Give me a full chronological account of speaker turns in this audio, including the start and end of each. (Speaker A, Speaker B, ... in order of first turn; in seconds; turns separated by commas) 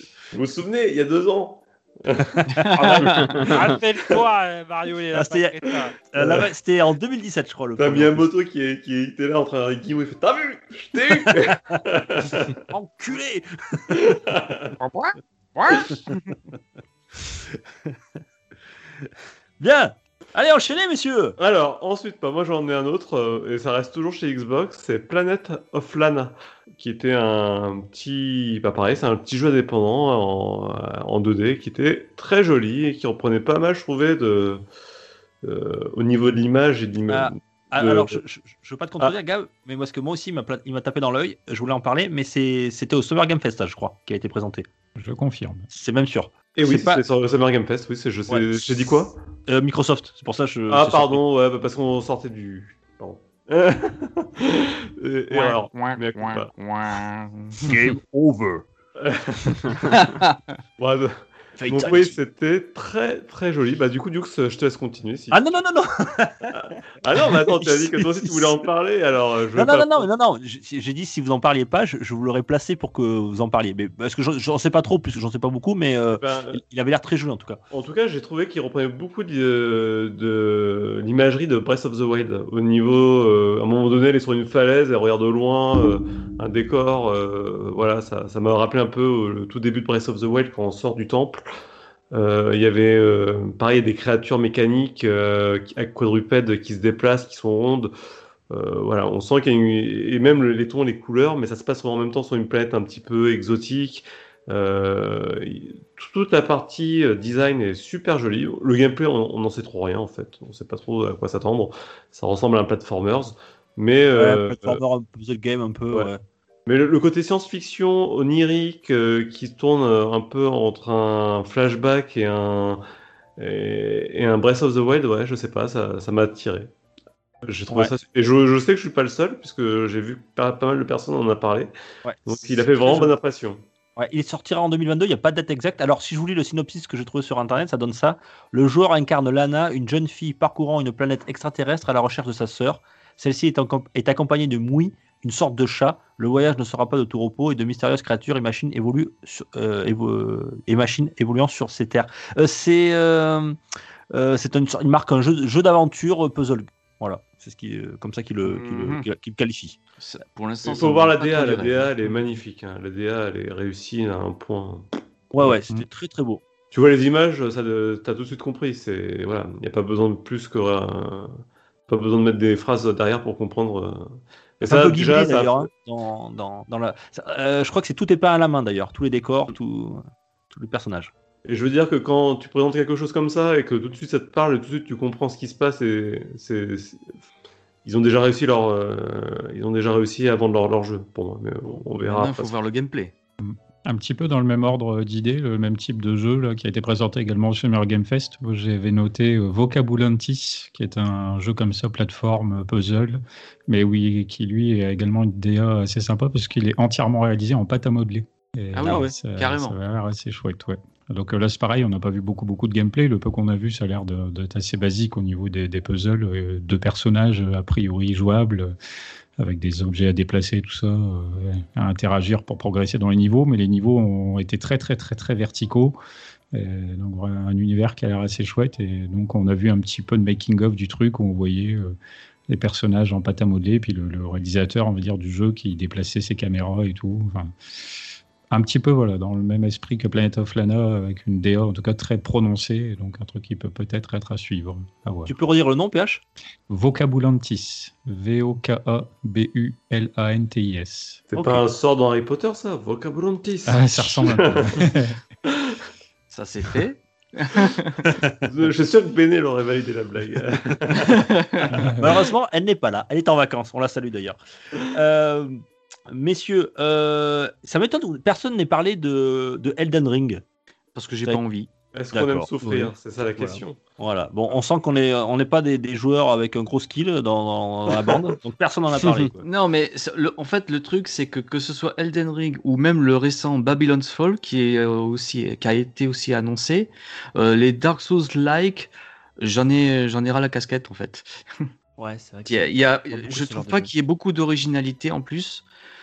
Speaker A: 0.3-2.5, Speaker B: 2.4-3.6, Speaker C: 2.5-3.5, Speaker D: 2.9-6.0, Speaker B: 5.1-8.3, Speaker A: 6.2-6.4, Speaker A: 7.8-12.6, Speaker B: 11.3-11.8, Speaker B: 12.7-14.0, Speaker A: 13.9-14.7, Speaker D: 14.8-16.0, Speaker B: 17.5-17.9, Speaker B: 19.6-21.4, Speaker A: 21.4-34.6, Speaker A: 35.4-38.2, Speaker B: 37.1-44.7, Speaker E: 45.0-45.7, Speaker B: 45.7-47.0, Speaker A: 46.5-49.2, Speaker B: 48.3-48.6, Speaker B: 49.5-51.2, Speaker A: 50.7-56.5, Speaker D: 55.3-57.5, Speaker B: 57.6-58.6, Speaker A: 59.0-59.8, Speaker C: 59.9-60.5, Speaker A: 60.8-61.1, Speaker F: 61.6-62.1, Speaker A: 61.7-65.4, Speaker B: 65.3-66.5, Speaker A: 66.5-70.1, Speaker B: 67.2-68.7, Speaker B: 69.5-77.6, Speaker A: 76.2-76.6, Speaker A: 77.7-91.5, Speaker A: 92.1-97.9, Speaker A: 98.5-114.8, Speaker B: 114.1-116.2, Speaker A: 116.7-122.8, Speaker A: 123.4-126.7, Speaker A: 127.4-131.7, Speaker B: 132.0-133.1, Speaker A: 132.3-133.6, Speaker B: 134.0-153.6, Speaker B: 154.1-159.8, Speaker C: 158.6-159.0, Speaker C: 160.0-161.9, Speaker A: 160.7-164.9, Speaker B: 165.3-166.4, Speaker A: 166.7-171.3, Speaker A: 171.9-175.7, Speaker B: 174.6-181.1, Speaker A: 181.5-187.1, Speaker A: 187.8-192.5, Speaker C: 192.1-193.1, Speaker E: 193.4-218.8, Speaker C: 208.7-209.8, Speaker B: 208.8-209.1, Speaker E: 219.4-226.0, Speaker E: 226.5-231.9, Speaker E: 232.5-237.5, Speaker E: 238.5-245.3, Speaker B: 245.3-246.2, Speaker E: 246.7-251.3, Speaker A: 251.3-255.8, Speaker E: 253.7-255.2, Speaker C: 256.3-258.1, Speaker A: 258.4-261.1, Speaker C: 261.0-261.9, Speaker E: 261.8-262.0, Speaker B: 262.0-270.4, Speaker C: 270.9-271.7, Speaker A: 271.9-273.8, Speaker B: 272.1-272.5, Speaker F: 272.6-272.9, Speaker B: 273.4-279.4, Speaker F: 279.0-279.3, Speaker C: 279.4-291.7, Speaker F: 292.0-293.9, Speaker C: 292.5-295.7